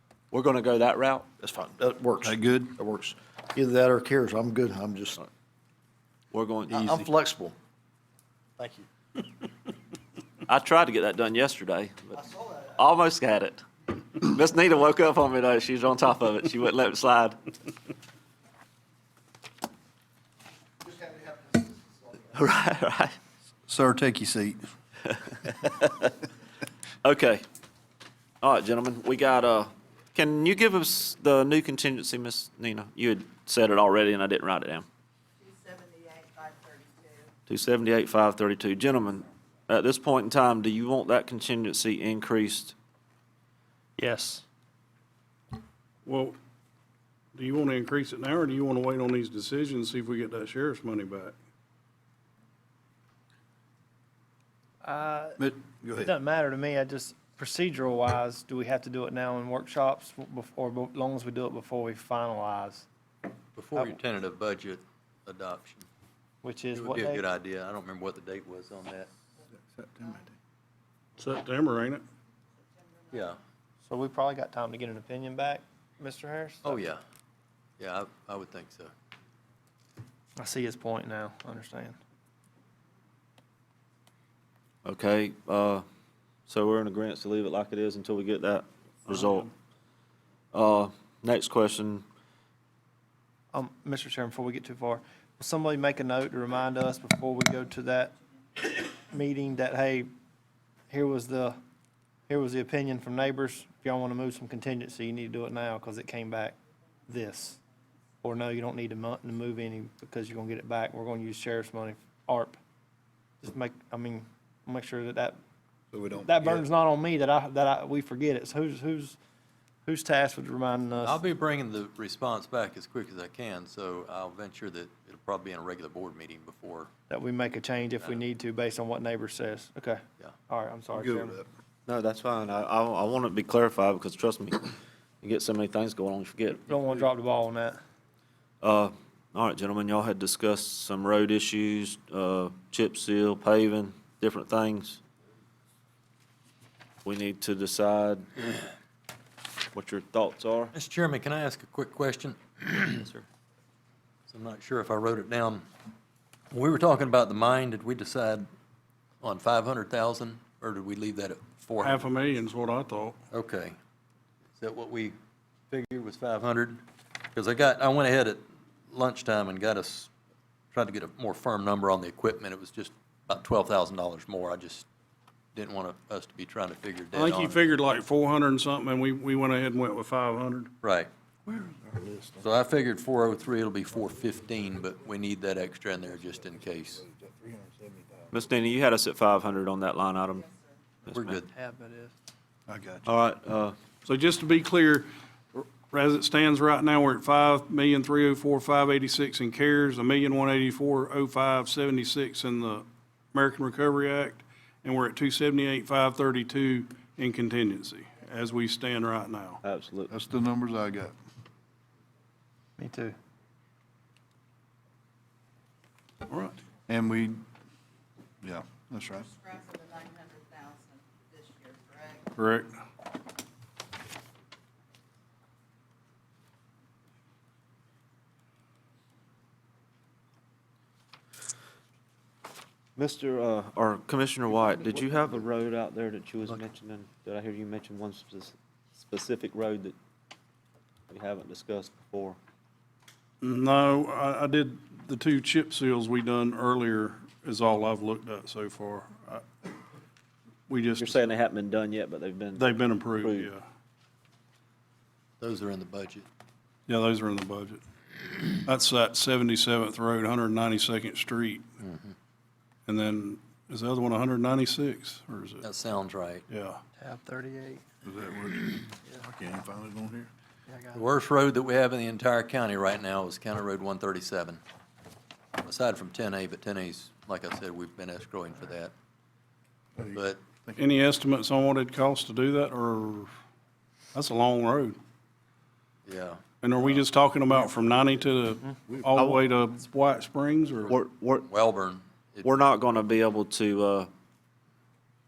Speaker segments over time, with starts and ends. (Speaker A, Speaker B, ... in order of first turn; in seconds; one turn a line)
Speaker A: 0.3-1.3
Speaker B: 1.4-5.2
Speaker A: 6.3-7.1
Speaker B: 6.7-7.5
Speaker B: 8.6-8.8
Speaker A: 10.5-17.4
Speaker B: 20.9-21.6
Speaker A: 22.3-23.2
Speaker C: 23.8-24.6
Speaker A: 25.3-26.1
Speaker A: 27.0-27.4
Speaker A: 28.4-34.9
Speaker D: 35.4-37.3
Speaker A: 37.5-42.8
Speaker E: 44.0-44.4
Speaker F: 46.0-46.3
Speaker F: 47.3-51.3
Speaker E: 54.8-55.4
Speaker C: 55.4-56.1
Speaker E: 56.0-62.9
Speaker G: 63.5-65.8
Speaker E: 66.4-67.2
Speaker G: 66.7-69.1
Speaker C: 69.8-70.3
Speaker F: 71.2-72.0
Speaker G: 73.1-73.4
Speaker E: 73.8-76.8
Speaker G: 76.6-77.0
Speaker G: 77.8-78.9
Speaker E: 80.4-81.9
Speaker A: 84.8-85.8
Speaker A: 86.5-89.5
Speaker F: 89.1-89.5
Speaker A: 90.5-92.0
Speaker E: 93.5-98.2
Speaker E: 99.0-100.1
Speaker E: 100.9-101.5
Speaker E: 102.3-106.5
Speaker E: 107.1-107.6
Speaker E: 108.2-112.6
Speaker E: 113.4-115.4
Speaker C: 115.9-116.7
Speaker E: 116.2-119.2
Speaker E: 119.8-121.2
Speaker G: 121.0-126.9
Speaker E: 127.1-131.4
Speaker C: 130.9-131.4
Speaker A: 131.9-136.7
Speaker E: 136.7-137.8
Speaker A: 138.6-145.0
Speaker A: 147.0-148.3
Speaker A: 149.7-150.7
Speaker G: 150.7-153.1
Speaker A: 152.9-153.2
Speaker G: 154.3-155.7
Speaker G: 156.5-158.5
Speaker G: 159.2-162.0
Speaker F: 161.8-163.2
Speaker G: 163.3-163.8
Speaker G: 164.6-165.2
Speaker G: 165.7-166.8
Speaker G: 167.3-170.1
Speaker G: 170.7-174.9
Speaker G: 175.6-177.6
Speaker F: 177.1-180.7
Speaker G: 180.8-181.1
Speaker C: 181.5-182.5
Speaker G: 182.4-187.0
Speaker C: 186.1-188.3
Speaker A: 188.3-190.5
Speaker A: 191.1-191.4
Speaker G: 191.1-191.5
Speaker E: 191.5-192.1
Speaker C: 192.7-193.1
Speaker A: 193.0-193.8
Speaker F: 194.1-209.6
Speaker A: 209.6-210.1
Speaker C: 210.1-211.2
Speaker E: 212.8-213.2
Speaker F: 216.3-216.6
Speaker C: 216.9-217.4
Speaker C: 218.4-219.3
Speaker D: 219.4-222.2
Speaker F: 222.3-222.7
Speaker A: 233.0-240.0
Speaker A: 241.1-242.4
Speaker F: 243.4-249.4
Speaker F: 250.7-251.2
Speaker A: 251.0-253.5
Speaker F: 252.6-253.6
Speaker G: 255.4-256.3
Speaker F: 256.9-257.8
Speaker F: 258.6-261.6
Speaker G: 261.8-262.1
Speaker F: 262.9-265.6
Speaker G: 265.6-266.4
Speaker F: 266.5-266.8
Speaker E: 267.0-267.8
Speaker C: 268.0-270.3
Speaker E: 270.7-271.0
Speaker G: 270.9-274.6
Speaker G: 275.6-278.9
Speaker C: 280.0-280.8
Speaker G: 280.1-280.4
Speaker F: 280.8-283.3
Speaker F: 284.1-285.0
Speaker G: 286.1-286.4
Speaker F: 286.6-290.9
Speaker A: 289.2-289.4
Speaker A: 290.9-291.5
Speaker G: 291.4-292.5
Speaker A: 292.4-294.1